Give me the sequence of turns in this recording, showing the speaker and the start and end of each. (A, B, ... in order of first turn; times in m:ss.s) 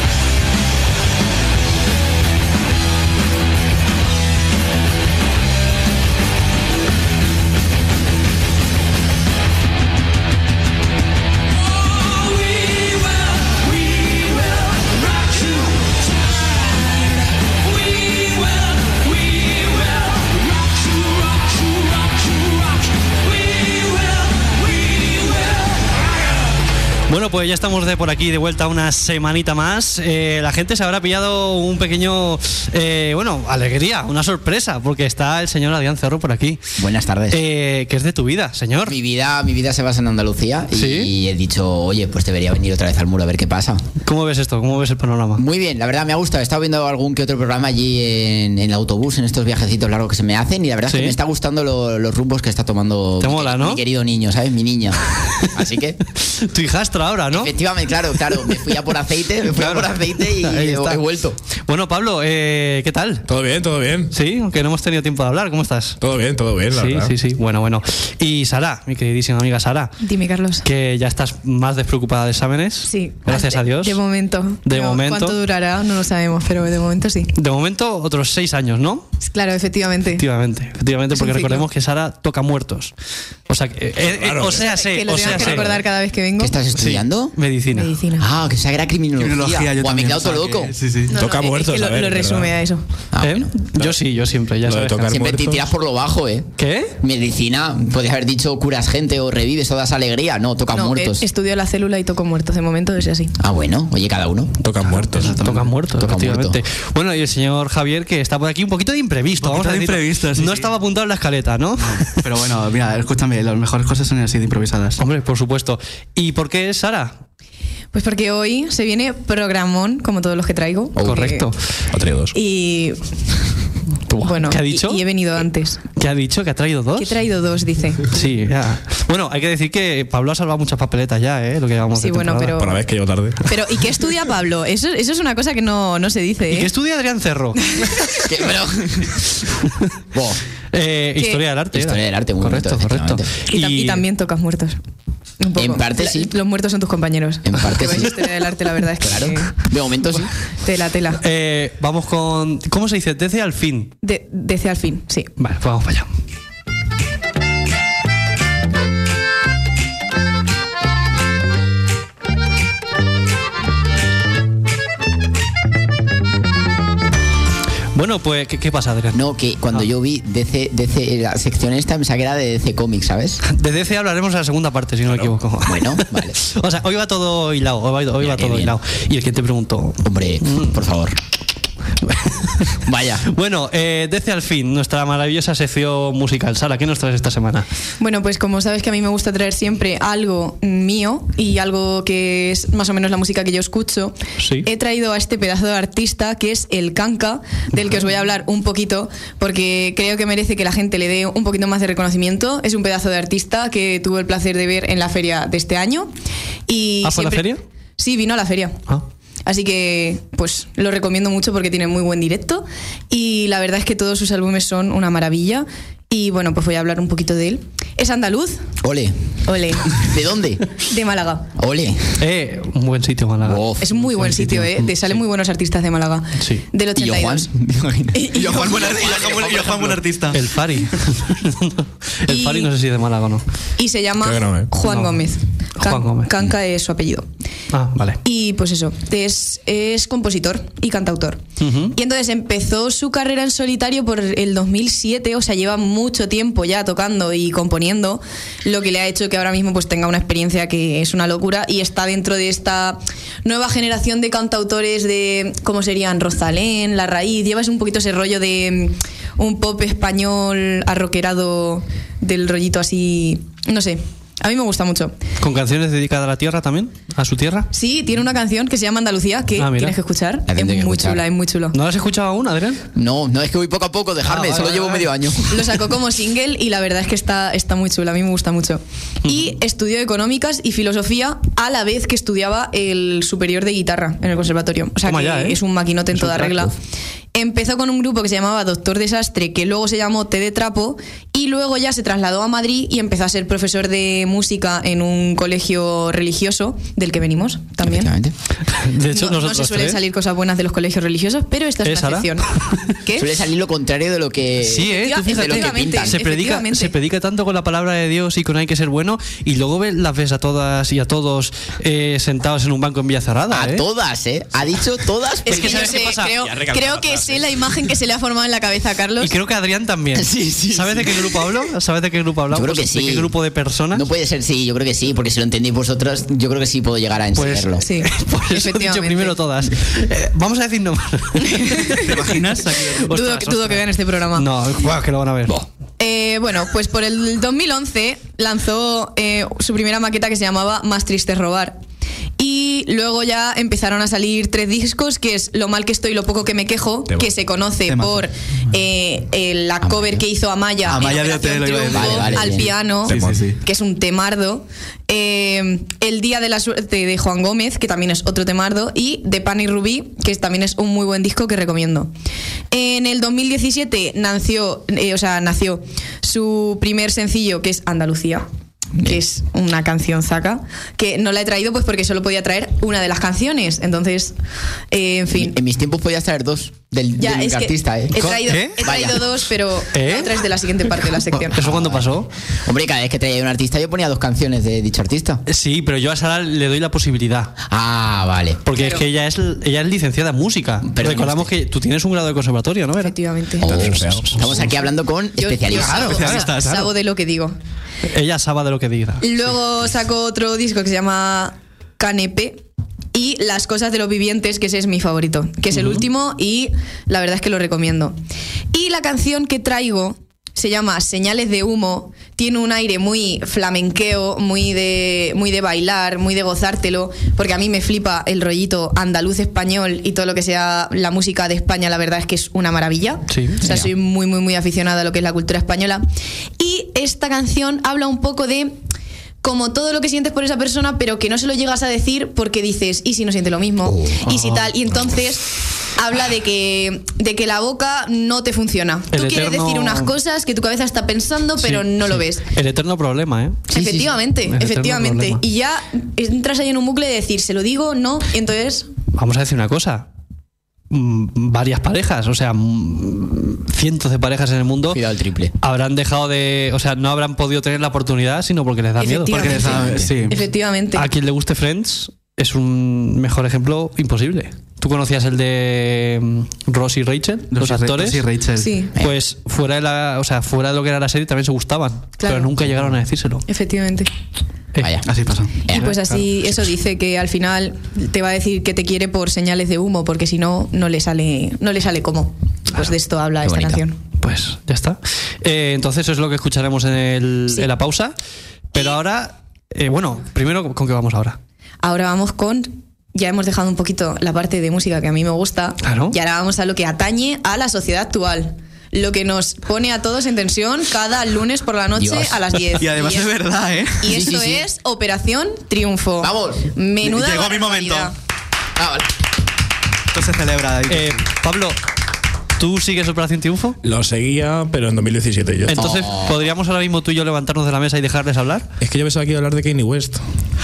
0:27.1-0:36.6 A
0:36.8-0:37.4 B
0:37.3-0:38.9 A
0:38.9-0:43.8 B
0:40.8-0:41.1 A
0:44.0-0:45.4 A
0:45.4-0:56.0 B
0:50.9-0:51.2 A
0:53.2-0:53.8 A
0:56.2-0:57.5 A
0:57.3-1:01.4 B
0:59.4-1:01.0 A
1:01.7-1:03.3 A
1:03.3-1:04.1 C
1:04.1-1:06.0 A
1:06.0-1:07.1 C
1:06.7-1:10.0 A
1:10.0-1:10.7 D
1:10.6-1:14.0 A
1:12.8-1:17.3 D
1:14.6-1:15.4 A
1:17.4-1:19.1 A
1:19.2-1:20.2 D
1:20.2-1:22.9 A
1:21.1-1:21.7 D
1:23.5-1:25.8 A
1:24.1-1:25.5 C
1:24.7-1:26.6 D
1:26.4-1:27.4 B
1:26.7-1:28.0 A
1:27.7-1:28.3 D
1:28.2-1:30.7 B
1:29.2-1:31.2 E
1:31.1-1:32.8 D
1:31.1-1:32.6 C
1:33.1-1:33.5 B
1:33.2-1:35.2 A
1:33.8-1:34.0 C
1:34.6-1:35.7 C
1:35.1-1:41.2 B
1:36.6-1:36.9 A
1:40.7-1:43.4 D
1:43.4-1:44.6 B
1:44.6-1:45.4 C
1:44.9-1:45.7 E
1:45.2-1:52.2 A
1:45.9-1:46.6 B
1:49.4-1:50.7 E
1:51.8-1:55.0 E
1:55.0-1:57.1 A
1:57.9-2:01.5 D
2:01.0-2:01.6 A
2:01.9-2:02.4 C
2:02.3-2:03.0 D
2:04.1-2:05.0 A
2:04.2-2:05.8 D
2:06.0-2:07.2 A
2:07.0-2:08.1 D
2:08.1-2:12.6 A
2:11.9-2:12.8 D
2:12.6-2:13.6 C
2:13.4-2:16.7 D
2:16.5-2:17.8 A
2:18.2-2:19.2 B
2:20.1-2:20.4 B
2:20.7-2:24.0 A
2:21.7-2:23.3 B
2:23.5-2:24.8 D
2:25.4-2:29.6 D
2:25.6-2:26.3 B
2:27.4-2:28.2 B
2:29.0-2:30.3 B
2:30.6-2:31.2 D
2:31.2-2:33.9 A
2:34.0-2:35.3 D
2:35.4-2:36.1 A
2:47.9-2:49.2 A
2:49.1-2:53.4 B
2:53.4-3:00.8 A
2:55.7-2:56.4 B
2:58.2-2:58.8 B
3:00.0-3:01.2 B
3:02.0-3:07.7 A
3:02.8-3:03.3 B
3:08.0-3:26.1 D
3:14.4-3:14.7 A
3:26.7-3:28.8 D
3:27.0-3:27.6 A
3:29.5-3:38.7 D
3:38.8-3:39.2 B
3:39.4-3:40.1 D
3:39.8-3:40.7 B
3:40.8-3:41.5 D
3:41.6-3:42.2 B
3:42.2-3:44.9 A
3:43.4-3:43.9 B
3:43.8-3:47.5 D
3:46.4-3:46.6 A
3:47.0-3:50.0 B
3:48.1-3:48.9 D
3:48.3-3:50.4 E
3:50.3-3:53.4 A
3:52.3-3:52.7 D
3:53.8-3:57.3 D
3:54.2-3:54.7 C
3:54.8-3:55.2 A
3:55.8-3:56.3 A
3:57.7-3:58.2 A
3:58.2-4:01.4 D
4:01.6-4:02.0 A
4:01.9-4:25.2 D
4:25.4-4:27.7 A
4:27.7-4:31.8 D
4:29.6-4:30.0 A
4:30.5-4:31.2 B
4:31.7-4:32.8 A
4:33.0-4:35.8 B
4:34.2-4:35.1 A
4:35.5-4:46.7 D
4:39.2-4:39.5 A
4:45.1-4:45.6 A
4:47.3-4:58.1 D
4:57.8-4:58.3 B
4:58.7-5:00.0 A
4:59.1-5:03.3 D
5:01.8-5:02.8 A
5:03.2-5:06.2 B
5:04.6-5:13.8 A
5:05.0-5:06.9 D
5:13.5-5:15.9 B
5:15.5-5:19.3 D
5:15.5-5:16.4 A
5:16.4-5:17.6 C
5:19.2-5:24.0 A
5:20.2-5:21.6 B
5:22.5-5:23.3 B
5:23.9-5:27.8 B
5:27.4-5:32.0 A
5:27.8-5:29.4 D
5:31.5-5:32.1 D
5:31.9-5:33.1 E
5:32.8-5:35.7 A
5:33.1-5:34.5 D
5:36.0-5:41.8 D
5:42.4-6:02.1 D
5:47.9-5:48.3 E
5:49.8-5:50.2 B
5:50.9-5:53.6 E
5:51.9-5:52.7 B
5:53.0-5:53.4 C
6:02.7-6:08.5 D
6:09.0-6:14.3 D
6:14.9-6:15.5 D
6:15.3-6:19.4 B
6:17.2-6:21.6 D
6:18.2-6:18.8 A
6:19.9-6:20.4 A
6:21.5-6:22.3 A
6:21.6-6:22.1 B
6:22.6-6:25.4 B
6:25.5-6:27.6 A
6:27.7-6:28.6 B
6:28.6-6:34.7 A
6:28.7-6:29.0 D
6:30.9-6:31.5 B
6:33.0-6:33.7 D
6:33.6-6:36.3 B
6:33.6-6:34.5 C
6:35.4-6:37.6 D
6:35.8-6:36.7 E
6:35.9-6:36.9 A
6:38.0-6:39.4 A
6:39.2-6:42.6 D
6:43.1-6:48.2 D
6:45.7-6:46.0 A
6:48.7-7:06.0 D
7:03.3-7:03.6 A
7:03.6-7:03.9 B
7:06.6-7:08.8 D
7:09.4-7:22.4 D
7:13.9-7:14.3 B
7:19.1-7:20.1 A
7:21.6-7:23.7 A
7:23.7-7:28.9 D
7:23.7-7:24.1 B
7:24.5-7:25.4 A
7:29.1-7:30.1 A
7:30.9-7:35.0 A
7:34.9-7:35.5 B
7:35.6-7:39.8 A
7:39.0-7:41.1 D
7:39.3-7:40.4 E
7:39.5-7:40.1 B
7:41.0-7:48.2 A
7:47.5-7:48.8 E
7:48.6-7:48.9 D
7:49.0-7:53.4 A
7:52.2-7:52.6 D
7:53.5-7:54.1 D
7:54.7-7:55.0 A
7:54.8-7:55.1 B
7:55.0-7:55.5 E
7:55.7-7:56.0 B
7:55.7-8:04.0 D
8:03.4-8:03.8 B
8:04.2-8:08.2 A
8:08.7-8:11.4 A
8:11.8-8:23.3 D
8:15.8-8:16.2 A
8:22.0-8:22.6 B
8:22.8-8:24.6 E
8:24.0-8:28.1 D
8:26.2-8:26.7 B
8:27.0-8:28.1 E
8:28.8-8:29.1 B
8:30.1-8:31.2 E
8:30.9-8:31.8 A
8:32.6-8:33.8 A
8:33.8-8:35.9 C
8:35.7-8:38.7 A
8:35.8-8:36.4 B
8:38.8-8:40.2 C